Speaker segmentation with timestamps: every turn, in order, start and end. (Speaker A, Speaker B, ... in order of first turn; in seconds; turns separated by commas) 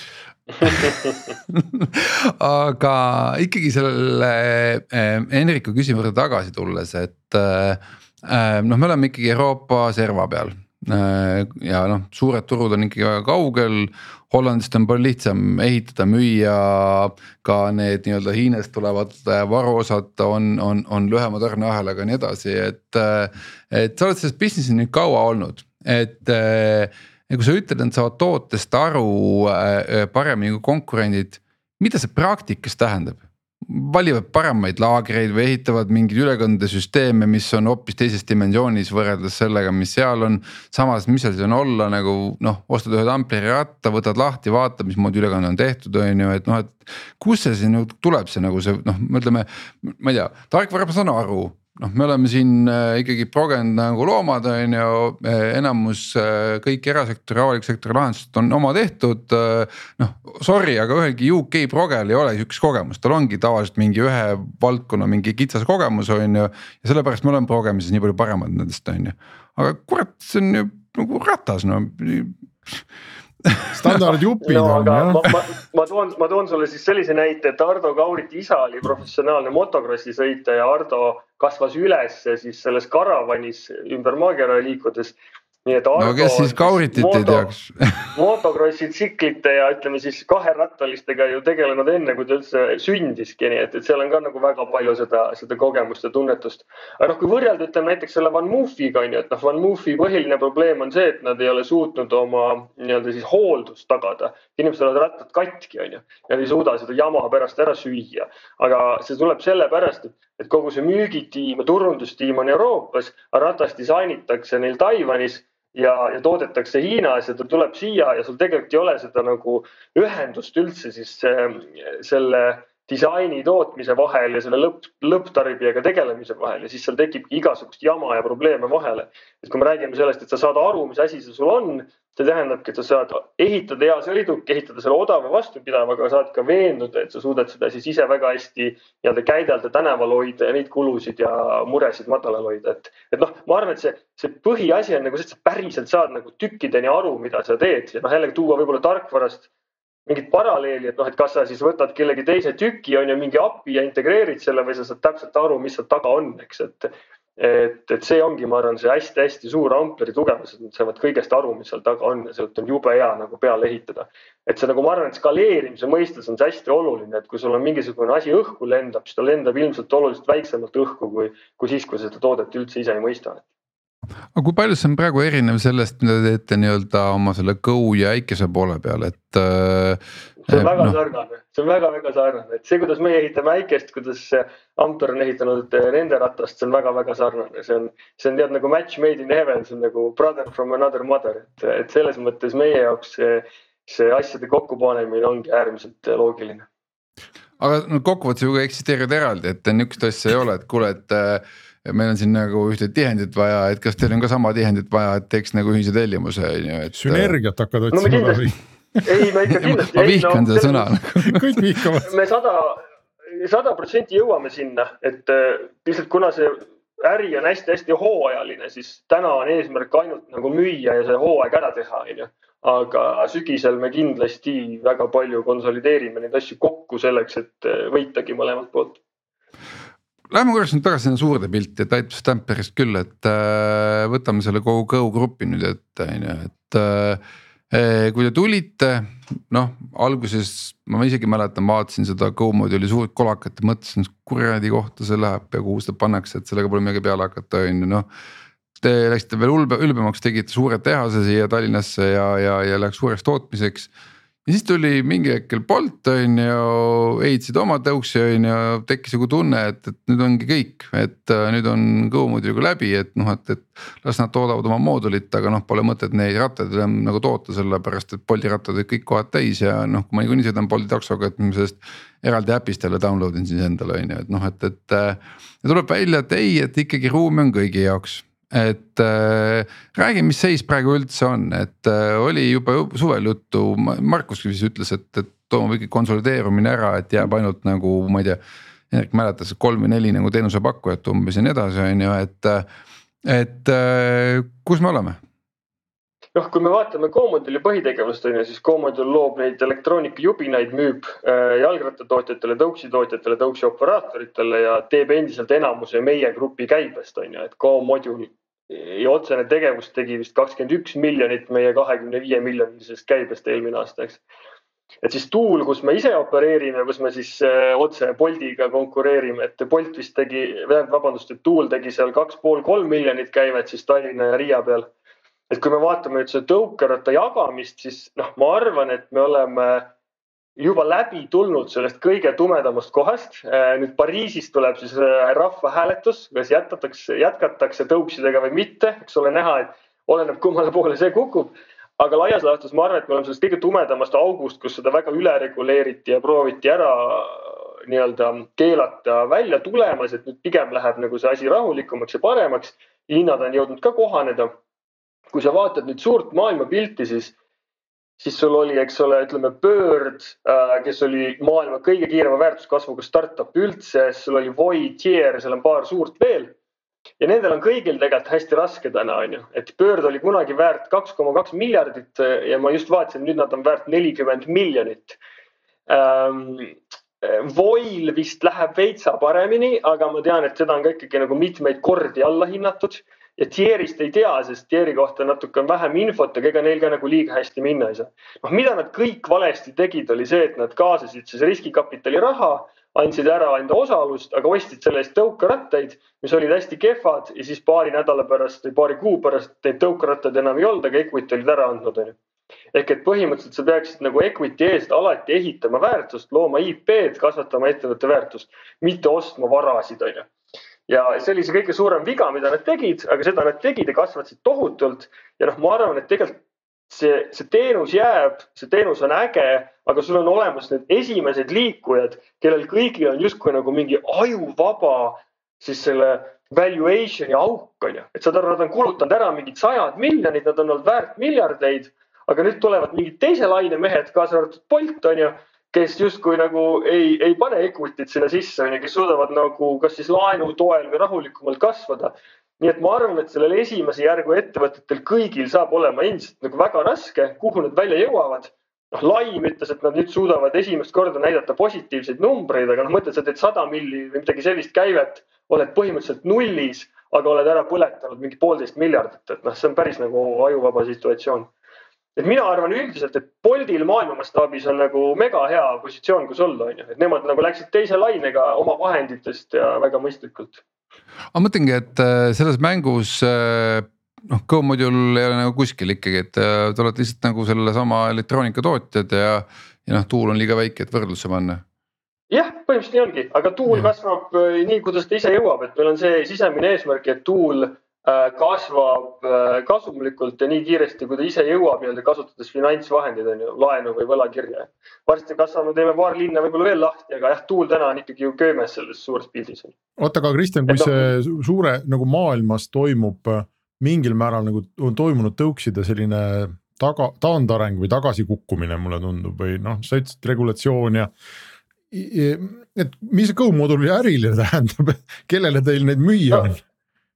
Speaker A: 0.6-72.8, Speaker B: 0.7-1.1, Speaker A: 73.5-74.1, Speaker C: 73.7-75.2, Speaker B: 74.4-87.5, Speaker A: 86.0-88.1, Speaker B: 88.1-149.5, Speaker B: 150.1-173.4, Speaker A: 174.3-180.9, Speaker B: 180.5-196.7, Speaker A: 197.6-207.3, Speaker C: 206.9-209.0, Speaker B: 207.9-208.5, Speaker B: 209.0-210.9, Speaker A: 209.6-211.5, Speaker C: 211.2-212.1, Speaker B: 212.0-229.0, Speaker A: 230.3-248.1, Speaker A: 248.8-253.9, Speaker A: 254.5-288.4, Speaker A: 288.9-292.6, Speaker A: 293.2-295.2, Speaker B: 296.4-314.2, Speaker B: 315.0-324.9, Speaker B: 325.5-329.9, Speaker B: 330.6-354.5, Speaker B: 355.3-357.4, Speaker B: 358.2-366.5, Speaker B: 367.2-375.2, Speaker B: 375.9-402.2, Speaker B: 402.7-410.3, Speaker B: 410.9-416.4, Speaker B: 416.9-461.5, Speaker B: 462.2-470.6, Speaker A: 471.3-481.6, Speaker B: 482.3-499.7, Speaker C: 500.0-511.1, Speaker B: 500.7-501.1, Speaker C: 511.9-516.6